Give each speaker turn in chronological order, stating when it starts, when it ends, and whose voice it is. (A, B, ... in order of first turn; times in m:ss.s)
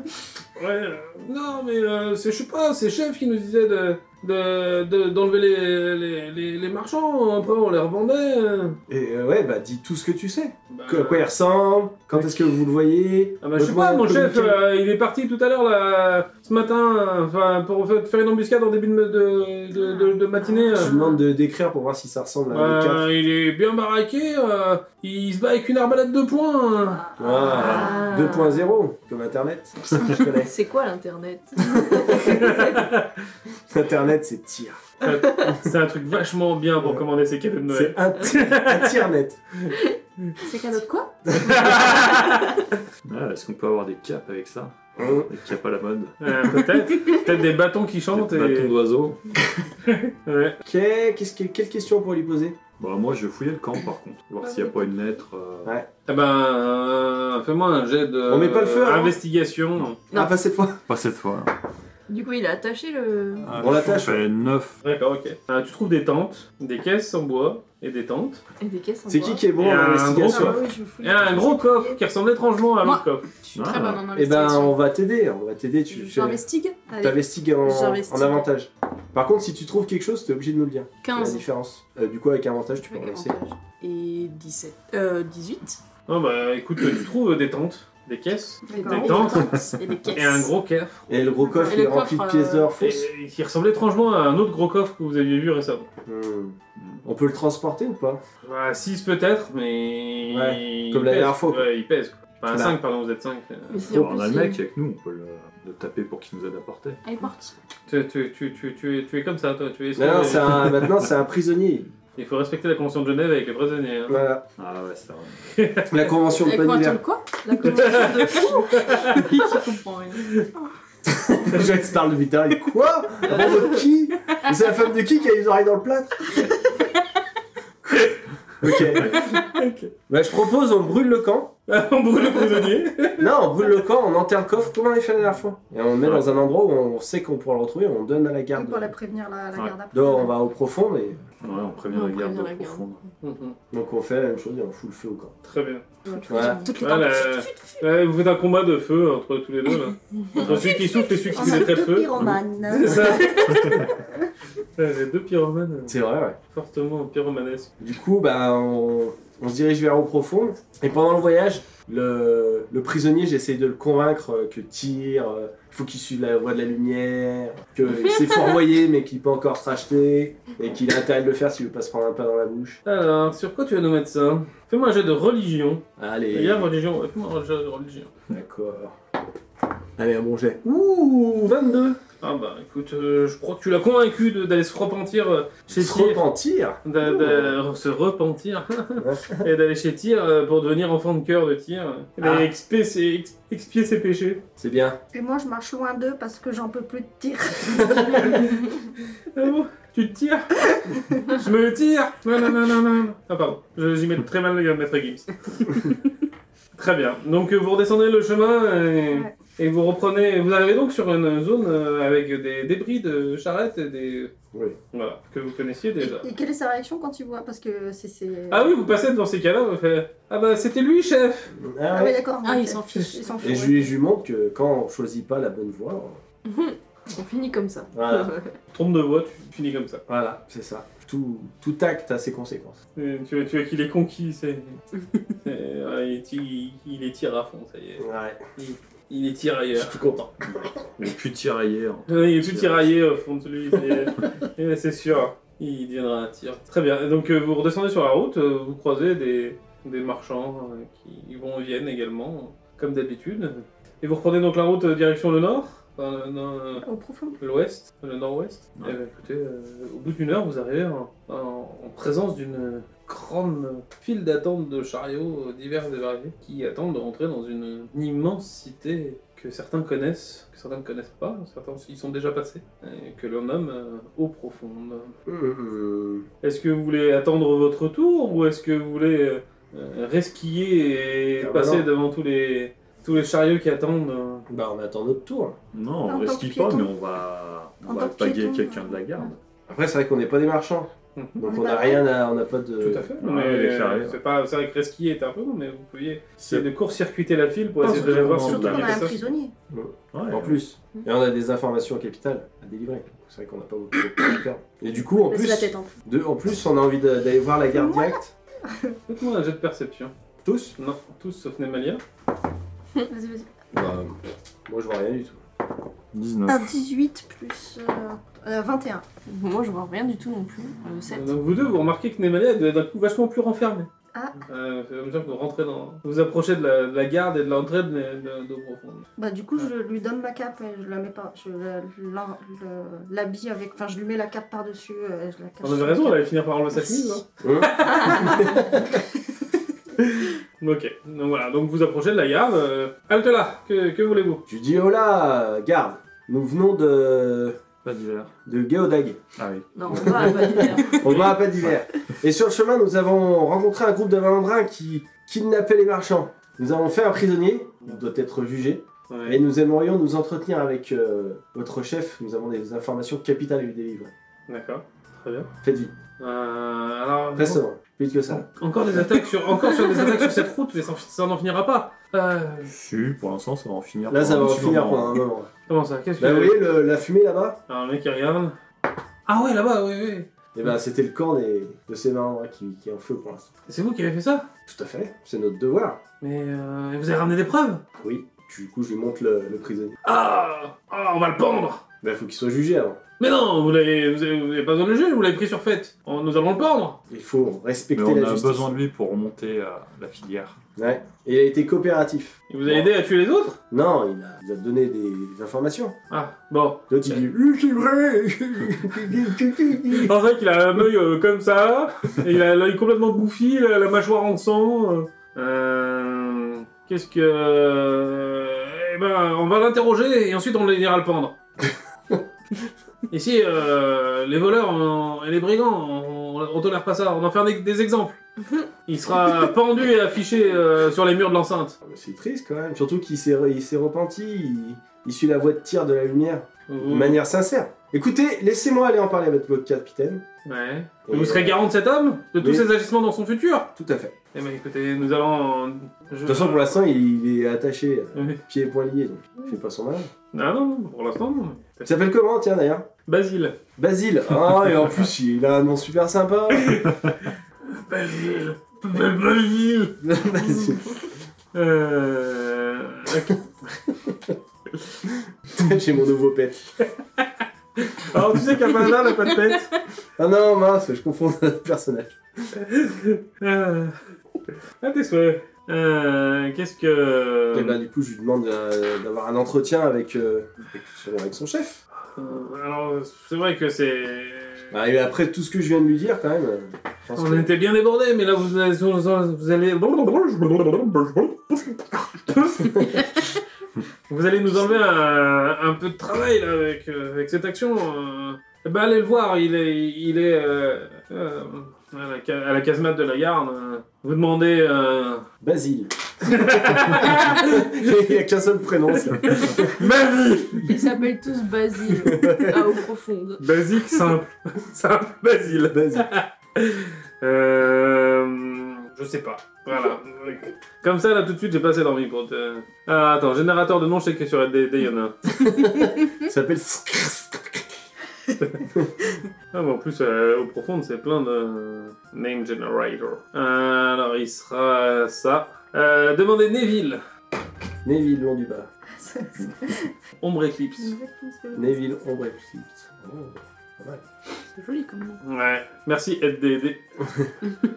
0:00.6-0:08.8 A
0:08.9-0:14.6 B
0:10.7-0:11.3 A
0:12.1-0:12.6 A
0:13.4-0:21.0 A
0:20.8-0:21.1 C
0:20.8-0:23.1 B
0:22.5-0:27.1 A
0:27.2-0:30.5 B
0:27.2-0:28.0 C
0:27.4-0:28.7 D
0:30.1-0:32.7 D
0:31.6-0:32.5 B
0:32.2-0:33.1 A
0:33.7-0:34.8 B
0:35.0-0:39.1 A
0:37.7-0:39.4 B
0:40.4-0:41.1 E
0:41.3-0:41.8 B
0:41.4-0:42.6 A
0:43.0-0:46.5 F
0:45.0-0:45.3 B
0:46.2-0:48.8 A
0:48.1-0:49.2 F
0:49.9-0:50.6 A
0:50.6-0:52.6 B
0:52.8-0:55.8 F
0:54.4-0:54.9 D
0:56.1-1:00.0 A
0:58.3-0:59.2 B
1:00.1-1:00.8 B
1:00.9-1:01.5 F
1:02.1-1:03.5 D
1:03.4-1:04.8 F
1:03.6-1:04.2 B
1:04.8-1:08.4 A
1:08.6-1:09.5 D
1:09.1-1:10.6 B
1:09.6-1:13.3 A
1:10.3-1:11.6 E
1:10.7-1:11.9 C
1:12.8-1:14.8 E
1:13.5-1:14.0 F
1:14.1-1:16.4 B
1:15.9-1:18.5 E
1:17.0-1:23.4 B
1:21.0-1:21.5 E
1:22.8-1:25.8 E
1:26.1-1:29.6 A
1:28.7-1:29.5 C
1:28.8-1:30.5 E
1:30.1-1:31.3 A
1:31.1-1:33.1 B
1:31.4-1:31.8 C
1:31.6-1:32.8 E
1:32.8-1:35.9 A
1:36.1-1:38.2 B
1:38.4-1:43.8 A
1:40.3-1:41.7 B
1:42.5-1:42.8 B
1:43.7-1:44.6 D
1:43.8-1:47.0 F
1:47.0-1:47.6 E
1:47.9-1:50.8 A
1:50.0-1:51.9 B
1:52.2-1:54.2 A
1:54.1-1:54.4 B
1:54.6-1:55.5 F
1:55.6-1:55.9 A
1:55.9-1:57.0 B
1:56.3-2:00.2 E
1:57.4-1:59.6 D
1:57.6-1:59.3 A
2:01.1-2:06.4 B
2:08.6-2:09.2 B
2:09.0-2:09.9 A
2:10.1-2:11.5 B
2:11.7-2:13.3 A
2:13.2-2:18.9 B
2:16.0-2:16.3 F
2:18.6-2:20.3 C
2:19.9-2:21.2 B
2:21.4-2:23.0 F
2:21.9-2:22.9 D
2:23.2-2:23.6 A
2:23.7-2:25.4 B
2:25.4-2:25.8 A
2:26.1-2:26.8 C
2:26.2-2:27.8 E
2:26.3-2:26.7 B
2:26.8-2:33.9 A
2:30.4-2:34.0 C
2:34.8-2:37.7 A
2:35.9-2:36.4 B
2:37.8-2:52.8 B
2:52.8-2:58.1 A
2:56.0-2:56.7 B
2:58.3-2:59.0 B
3:00.0-3:02.0 B
3:02.2-3:06.2 A
3:05.7-3:07.6 B
3:06.8-3:14.4 A
3:09.0-3:09.4 B
3:12.2-3:12.5 B
3:14.6-3:15.0 B
3:15.1-3:18.7 C
3:17.8-3:18.4 B
3:19.3-3:26.0 A
3:26.8-3:34.3 A
3:34.9-3:36.3 A
3:36.0-3:38.8 C
3:38.5-3:41.5 A
3:41.5-3:42.2 B
3:41.9-3:43.9 C
3:42.4-3:43.4 E
3:43.4-3:46.2 B
3:46.4-3:48.6 D
3:47.9-3:48.3 B
3:48.7-3:50.0 A
3:50.1-3:52.8 B
3:53.0-3:54.8 A
3:55.4-4:00.0 A
3:58.0-3:58.4 B
3:59.7-4:00.7 B
4:01.0-4:02.9 F
4:02.1-4:16.8 A
4:16.8-4:17.4 C
4:17.4-4:35.1 A
4:35.3-4:36.3 B
4:36.4-4:44.4 A
4:41.4-4:41.9 B
4:44.5-4:45.6 B
4:45.7-4:49.4 F
4:46.0-4:46.9 C
4:47.8-4:49.3 C
4:49.7-4:53.1 B
4:51.2-4:51.4 A
4:51.4-4:52.1 C
4:52.8-4:59.2 A
4:53.2-4:54.2 F
4:56.4-4:56.7 F
4:57.8-4:59.1 F
4:57.9-4:59.5 C
4:59.7-5:08.3 B
5:00.1-5:00.6 F
5:05.3-5:05.8 D
5:07.7-5:09.0 C
5:09.1-5:10.1 A
5:10.4-5:10.8 B
5:10.8-5:12.0 A
5:13.1-5:13.5 C
5:13.7-5:15.4 B
5:16.1-5:16.8 F
5:16.5-5:19.0 C
5:19.3-5:21.3 D
5:21.1-5:23.9 A
5:24.1-5:24.4 C
5:24.5-5:29.1 A
5:29.2-5:37.2 C
5:35.6-5:38.6 A
5:37.4-5:38.9 B
5:38.3-5:39.0 C
5:40.0-5:44.4 A
5:44.5-5:47.6 B
5:47.8-5:48.3 F
5:48.4-5:49.2 B
5:49.4-5:50.7 F
5:49.8-5:51.2 D
5:49.9-6:04.1 B
5:51.0-5:51.3 A
5:59.1-5:59.4 A
6:04.5-6:05.5 A
6:05.6-6:06.0 B
6:06.2-6:07.6 A
6:07.4-6:08.5 B
6:08.3-6:12.7 A
6:12.7-6:15.2 F
6:14.1-6:15.5 B
6:15.7-6:16.6 A
6:16.2-6:17.6 B
6:17.7-6:18.6 A
6:19.3-6:20.3 A
6:20.5-6:23.5 B
6:23.7-6:24.5 A
6:24.7-6:26.0 B
6:26.2-6:27.8 A
6:28.0-6:30.0 B
6:30.0-6:31.8 A
6:32.0-6:33.0 B
6:33.2-6:37.0 A
6:37.1-6:38.8 B
6:37.9-6:40.6 F
6:40.8-6:42.9 B
6:42.5-6:43.6 A
6:43.7-6:46.0 B
6:46.1-6:47.3 A
6:46.9-6:50.2 B
6:49.9-7:01.4 A
7:03.1-7:08.2 A
7:08.9-7:11.8 A
7:11.8-7:20.2 B
7:16.7-7:17.2 A
7:20.4-7:23.7 A
7:21.1-7:21.7 B
7:22.4-7:22.7 B
7:23.8-7:24.2 B
7:24.3-7:26.8 A
7:26.3-7:30.1 B
7:28.2-7:28.4 A
7:30.3-7:32.0 A
7:31.8-7:32.9 B
7:33.1-7:33.6 A
7:33.8-7:36.8 B
7:36.5-7:40.0 A
7:40.0-7:41.1 B
7:41.5-7:43.9 A
7:45.5-7:46.8 B
7:47.2-7:49.7 A
7:50.2-7:52.2 B
7:52.5-7:54.0 A
7:54.8-7:57.8 A
7:57.5-8:01.8 B
8:02.2-8:04.7 A
8:04.7-8:07.5 B
8:07.2-8:13.3 A
8:14.1-8:25.3 A
8:25.4-8:29.8 B
8:26.2-8:27.9 A
8:29.1-8:30.8 A
8:30.7-8:33.4 D
8:31.9-8:32.7 B
8:33.4-8:45.5 A
8:35.5-8:36.1 B
8:45.4-8:47.8 B
8:48.4-8:48.6 A
8:49.5-8:57.0 A
8:57.8-8:58.7 B
8:58.9-8:59.9 C
9:00.2-9:01.0 A
9:00.8-9:01.8 C
9:01.6-9:04.0 B
9:04.6-9:05.2 E
9:05.2-9:06.8 A